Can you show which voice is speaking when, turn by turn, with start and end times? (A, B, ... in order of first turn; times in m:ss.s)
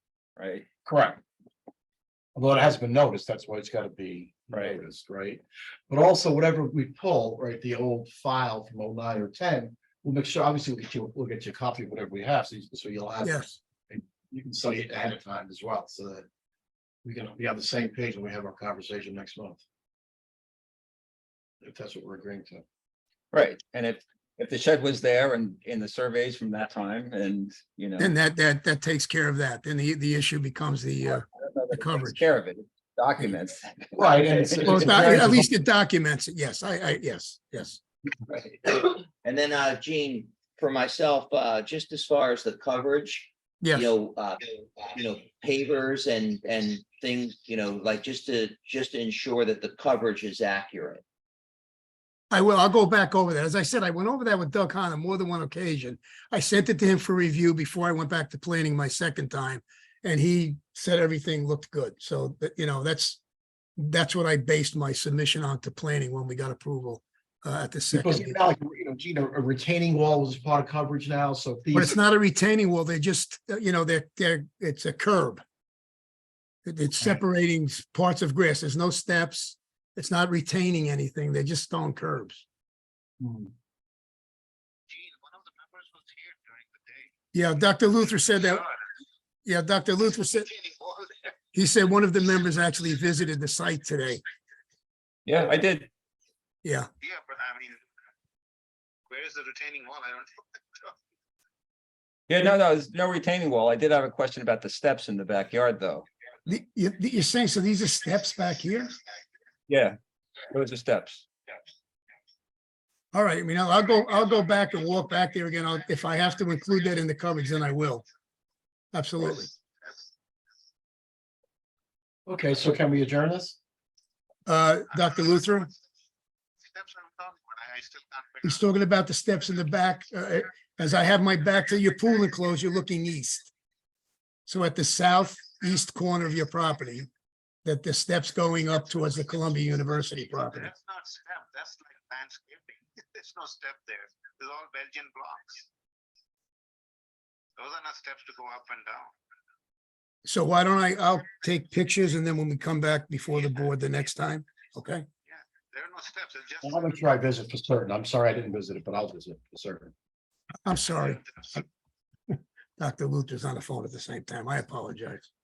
0:00.4-0:00.6 A
0:00.8-0:01.2 B
0:02.4-0:16.3 B
0:17.0-0:19.6 B
0:21.6-0:22.6 B
0:23.3-0:28.1 A
0:28.0-0:32.2 C
0:31.4-0:33.9 A
0:33.9-0:35.5 B
0:34.6-0:37.8 C
0:39.2-0:51.0 D
0:43.6-0:43.9 C
0:52.3-1:03.2 C
1:03.8-1:08.4 C
1:07.9-1:12.0 B
1:11.7-1:15.4 C
1:16.7-1:22.4 C
1:23.2-1:23.5 B
1:24.9-1:27.1 E
1:27.3-1:28.6 C
1:29.4-1:30.5 C
1:30.5-1:31.3 E
1:31.5-1:34.2 C
1:35.3-1:35.9 A
1:37.0-1:37.8 E
1:39.1-1:40.3 E
1:42.3-1:46.1 A
1:46.5-1:48.9 C
1:49.7-1:50.0 A
1:50.5-1:51.2 A
1:53.1-1:58.0 C
1:58.9-1:59.5 C
2:02.3-2:03.6 B
2:04.5-2:05.7 C
2:06.7-2:08.5 E
2:08.4-2:13.5 C
2:14.5-2:17.1 C
2:17.6-2:20.7 C
2:20.4-2:25.7 E
2:27.6-2:29.1 E
2:30.3-2:35.1 C
2:35.3-2:36.7 E
2:36.6-2:39.9 B
2:40.6-2:41.6 C
2:42.3-2:45.3 C